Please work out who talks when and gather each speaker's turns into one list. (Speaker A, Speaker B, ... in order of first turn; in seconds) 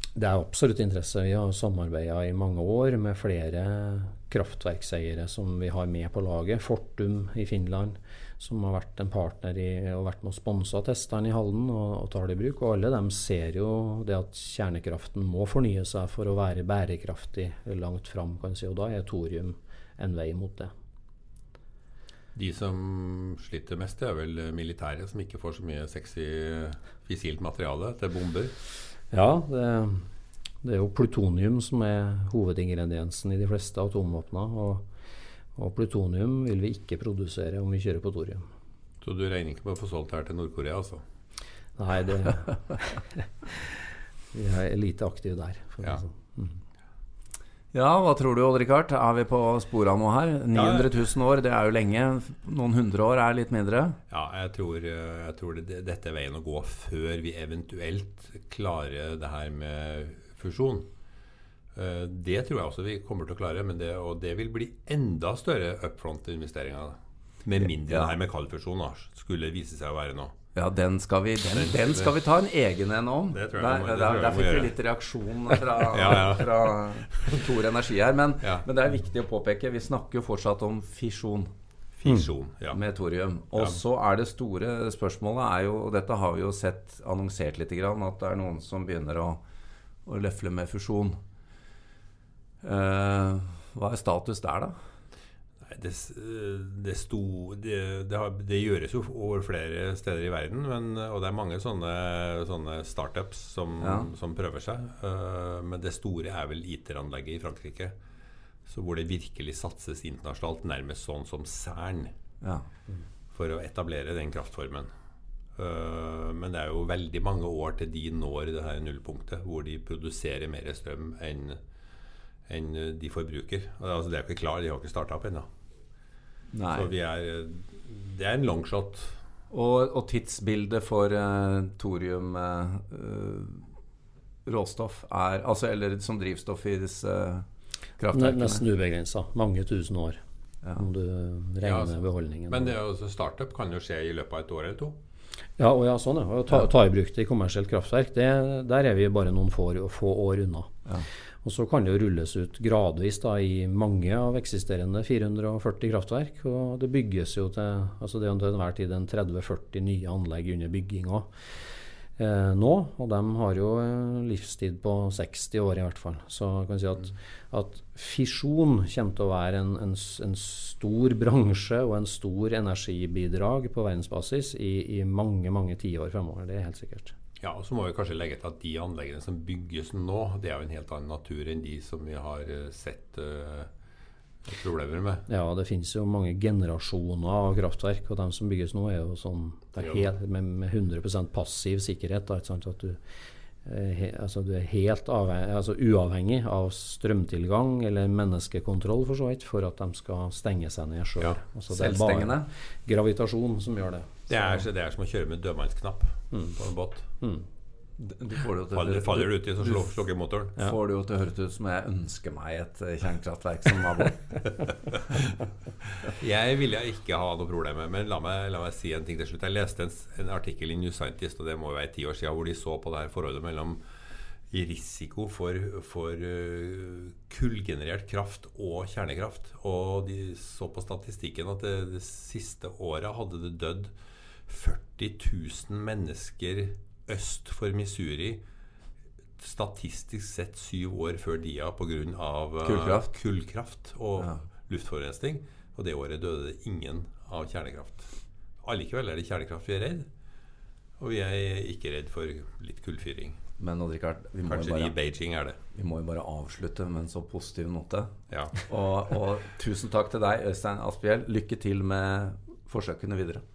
Speaker A: 0.1-20.7, 29.1-30.1, 30.6-34.9, 35.5-38.4, 41.8-43.7, 44.3-46.6, 138.1-140.2, 140.7-142.8, 145.6-150.7, 151.4-161.3, 162.2-177.1, 185.3-193.0, 193.6-204.6
Speaker B: 22.3-28.5, 39.0-41.0, 50.5-50.9, 54.1-60.9, 61.7-70.3, 71.5-72.1, 73.3-74.8, 75.5-77.5, 82.0-82.8, 95.7-107.9, 108.7-112.1, 113.3-114.9, 115.5-121.6, 122.5-125.5, 126.7-129.2, 141.6-141.9, 142.5-145.0, 177.4-183.7, 184.4-185.2, 189.8-190.1, 204.3-207.1, 208.7-210.6, 216.0-223.8, 224.5-233.9, 234.5-238.4, 239.4-248.1, 248.6-250.1, 251.0-253.4, 254.4-255.6, 258.3-258.6
Speaker C: 47.7-54.0, 67.8-68.2, 70.5-81.5, 82.7-89.4, 90.0-91.2, 92.6-94.8, 103.8-104.1, 126.5-126.9, 129.5-133.7, 134.4-137.4, 138.0-138.6, 201.7-202.5, 208.0-209.8, 210.6-214.3, 242.6-243.1, 253.6-254.9, 255.7-258.1, 258.6-263.4